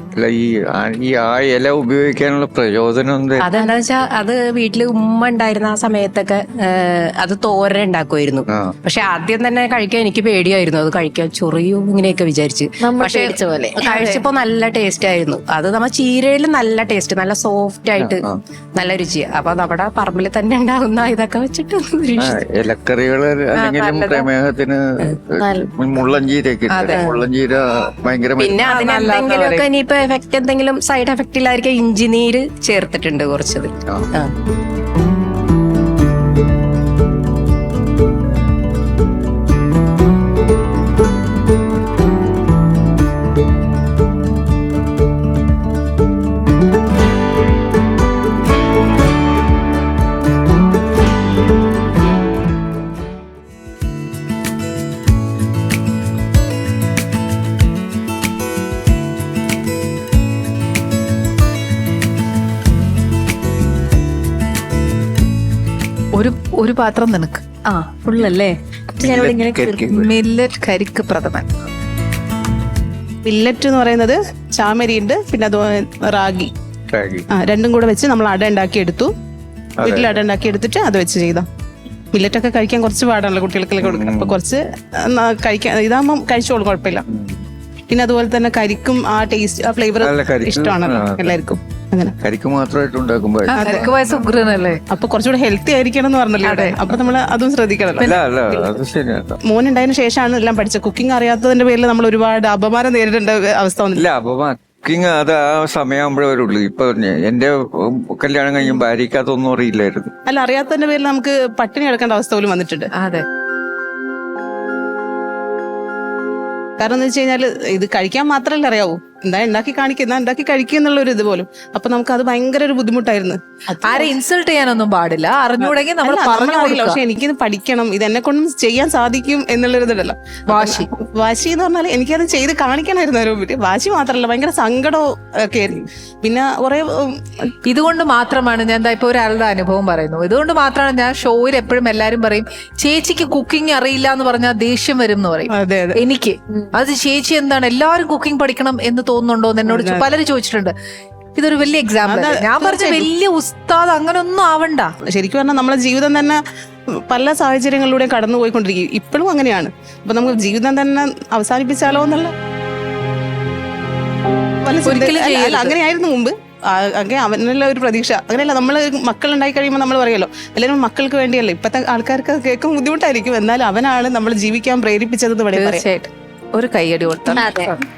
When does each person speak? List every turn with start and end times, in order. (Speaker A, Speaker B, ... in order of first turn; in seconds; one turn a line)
Speaker A: 0.1-3.5
Speaker B: 3.4-22.4
Speaker A: 8.5-8.7
Speaker C: 12.8-13.9
Speaker D: 13.8-14.2
Speaker A: 18.0-18.4
Speaker A: 22.2-28.7
Speaker D: 23.6-24.0
Speaker B: 23.8-24.2
Speaker C: 25.4-25.7
Speaker D: 26.7-27.0
Speaker B: 26.9-27.2
Speaker B: 28.4-34.3
Speaker D: 28.6-29.6
Speaker D: 66.1-67.4
Speaker C: 67.9-68.5
Speaker A: 69.0-70.1
Speaker C: 69.0-69.8
Speaker D: 69.9-71.5
Speaker E: 73.2-76.5
Speaker A: 76.9-77.3
Speaker E: 77.3-79.1
Speaker A: 79.8-80.2
Speaker E: 79.8-81.4
Speaker E: 82.1-84.6
Speaker A: 83.8-84.4
Speaker E: 85.1-87.0
Speaker A: 87.1-87.4
Speaker E: 87.9-92.1
Speaker A: 90.0-91.2
Speaker A: 92.2-93.7
Speaker D: 93.5-94.8
Speaker E: 93.6-93.9
Speaker E: 94.9-98.8
Speaker D: 96.4-96.9
Speaker A: 98.0-99.4
Speaker E: 99.5-104.0
Speaker A: 104.0-110.1
Speaker E: 110.3-112.9
Speaker D: 112.9-113.2
Speaker E: 116.8-124.1
Speaker D: 123.8-127.0
Speaker E: 125.6-137.1
Speaker D: 130.5-130.9
Speaker D: 137.7-150.7
Speaker E: 145.5-145.9
Speaker E: 149.7-150.0
Speaker D: 151.3-154.9
Speaker E: 152.1-153.1
Speaker E: 155.1-156.4
Speaker E: 157.1-162.3
Speaker E: 164.6-175.8
Speaker D: 164.8-165.7
Speaker D: 175.5-177.8
Speaker C: 177.3-177.7